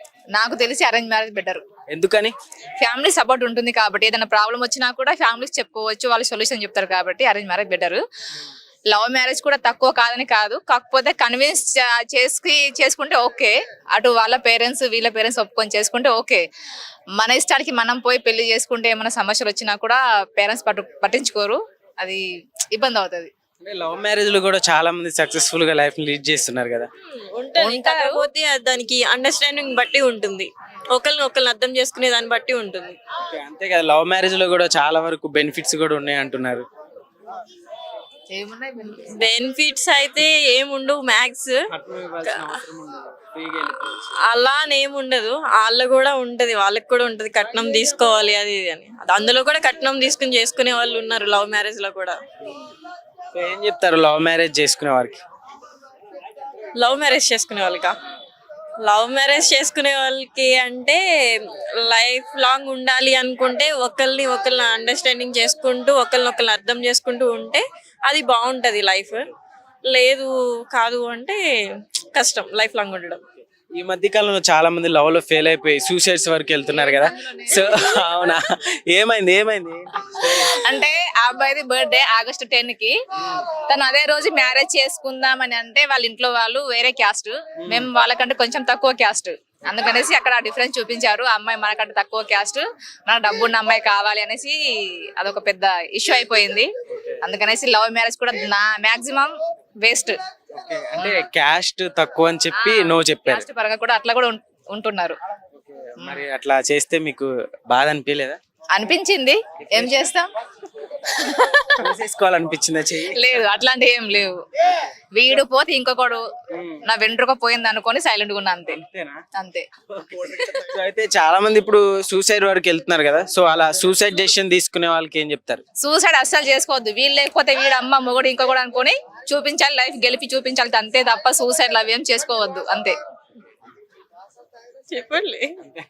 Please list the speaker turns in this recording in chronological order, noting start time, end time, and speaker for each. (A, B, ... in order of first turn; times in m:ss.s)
0:00.4-0:01.6 A
0:01.9-0:02.3 B
0:02.8-0:08.0 A
0:08.9-0:16.4 A
0:17.2-0:23.3 A
0:23.6-0:26.9 B
0:27.2-0:33.0 C
0:27.6-0:28.3 A
0:33.3-0:36.7 B
0:38.3-0:39.2 A
0:38.9-0:41.6 C
0:41.7-0:44.1 B
0:42.3-0:42.6 C
0:44.3-0:52.2 C
0:53.3-0:55.2 B
0:56.8-0:58.0 C
0:58.8-1:09.3 C
1:09.9-1:13.2 C
1:13.8-1:20.5 B
1:16.7-1:18.3 A
1:20.1-1:23.0 A
1:23.7-1:34.6 A
1:27.6-1:27.9 B
1:35.2-1:36.7 A
1:36.9-1:37.2 B
1:37.2-1:40.2 A
1:40.5-1:43.5 B
1:42.5-1:45.2 A
1:45.6-1:48.4 B
1:48.7-1:50.3 A
1:49.6-1:50.1 B
1:51.1-1:51.9 A
1:51.7-1:53.4 B
1:53.1-1:56.2 A
1:56.5-1:56.8 B
1:56.9-1:58.8 A
1:58.7-1:59.2 B
1:59.4-2:00.6 A
1:59.9-2:05.6 B
2:05.8-2:12.9 A
2:14.9-2:15.6 C